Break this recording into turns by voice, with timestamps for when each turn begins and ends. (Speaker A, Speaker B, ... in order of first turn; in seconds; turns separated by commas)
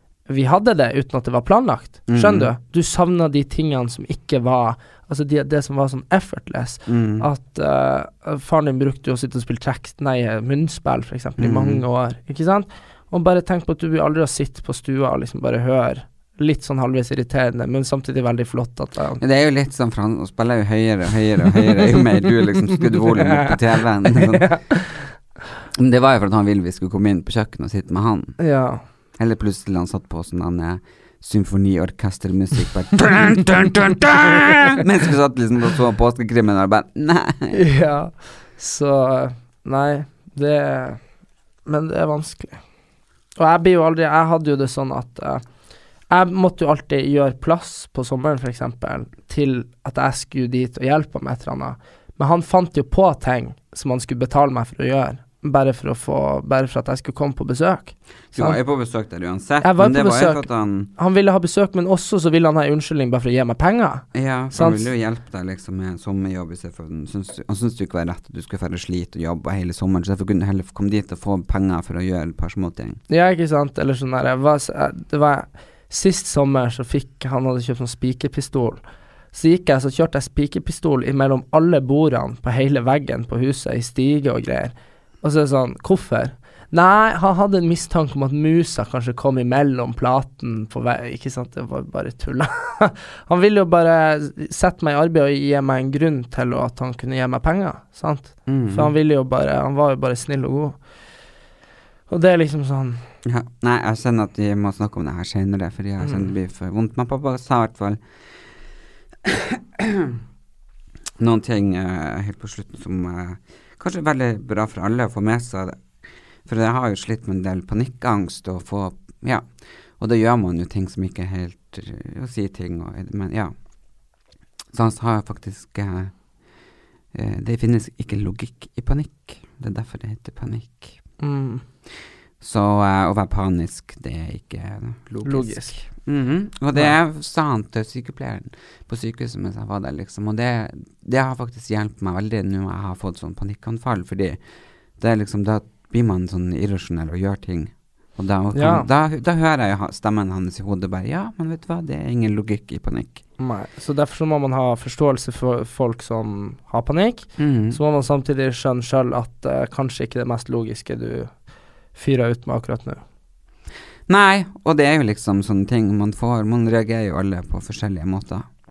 Speaker A: 0.3-19.2, Speaker B: 2.1-2.5, Speaker B: 6.8-7.3, Speaker B: 11.4-11.8, Speaker B: 19.2-24.6, Speaker A: 22.8-25.0, Speaker B: 25.7-28.4, Speaker A: 28.4-28.8, Speaker B: 29.2-37.6, Speaker A: 37.5-41.0, Speaker A: 41.6-42.6, Speaker A: 43.4-45.4, Speaker A: 46.1-58.6, Speaker B: 58.3-60.9, Speaker A: 59.6-60.4, Speaker A: 61.0-64.8, Speaker B: 64.1-73.0, Speaker A: 73.1-78.8, Speaker A: 79.3-100.8, Speaker B: 98.5-98.9, Speaker A: 102.1-103.0, Speaker B: 103.2-108.0, Speaker B: 109.2-110.2, Speaker B: 111.2-115.8, Speaker B: 116.5-119.5, Speaker B: 120.0-123.5, Speaker B: 124.7-126.1, Speaker B: 127.1-131.0, Speaker A: 131.2-131.6, Speaker B: 132.4-144.4, Speaker A: 135.2-135.8, Speaker B: 145.0-153.2, Speaker A: 148.5-148.9, Speaker A: 153.4-161.3, Speaker B: 157.4-157.8, Speaker A: 161.9-163.0, Speaker B: 164.1-168.4